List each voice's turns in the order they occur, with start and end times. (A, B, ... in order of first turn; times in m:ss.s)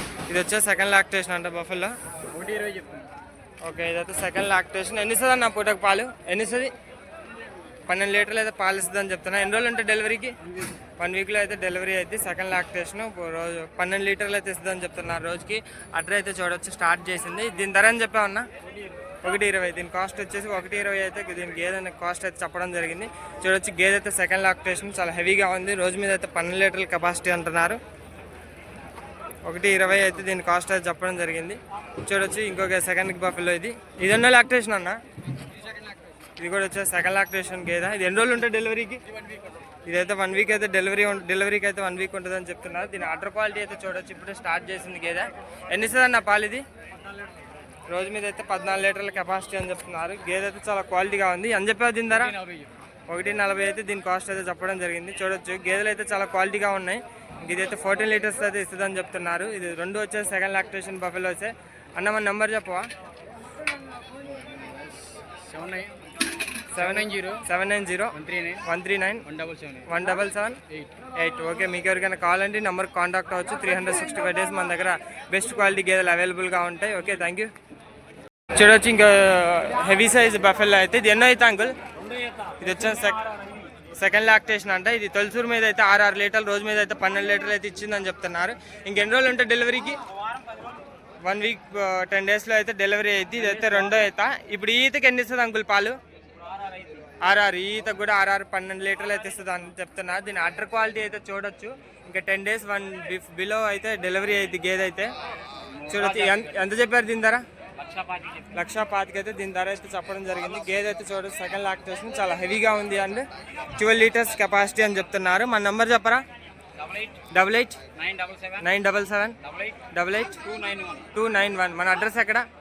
0:00.3-0:01.9 A
0:02.3-0:03.1 B
0:03.6-0:06.7 A
0:07.9-0:10.4 A
0:11.0-0:18.5 A
0:19.2-0:27.8 A
0:29.4-0:35.0 A
0:36.4-0:39.0 A
0:39.9-0:46.6 A
0:47.9-0:52.4 A
0:52.3-0:52.7 B
0:53.1-1:02.9 A
1:04.4-1:06.1 B
1:06.7-1:09.3 A
1:06.8-1:07.5 B
1:08.1-1:08.7 B
1:09.3-1:09.9 B
1:09.9-1:10.6 A
1:11.2-1:17.5 A
1:18.5-1:21.8 A
1:22.6-1:23.2 A
1:24.0-1:30.0 A
1:31.2-1:36.0 A
1:36.6-1:37.1 B
1:37.2-1:45.1 A
1:45.8-1:46.5 B
1:45.9-1:47.4 A
1:47.8-1:48.5 B
1:48.5-1:56.2 A
1:56.8-1:57.1 B
1:57.2-1:57.8 A
1:58.0-1:58.6 B
1:58.6-2:00.4 A
1:59.4-2:01.1 B
2:01.1-2:02.5 A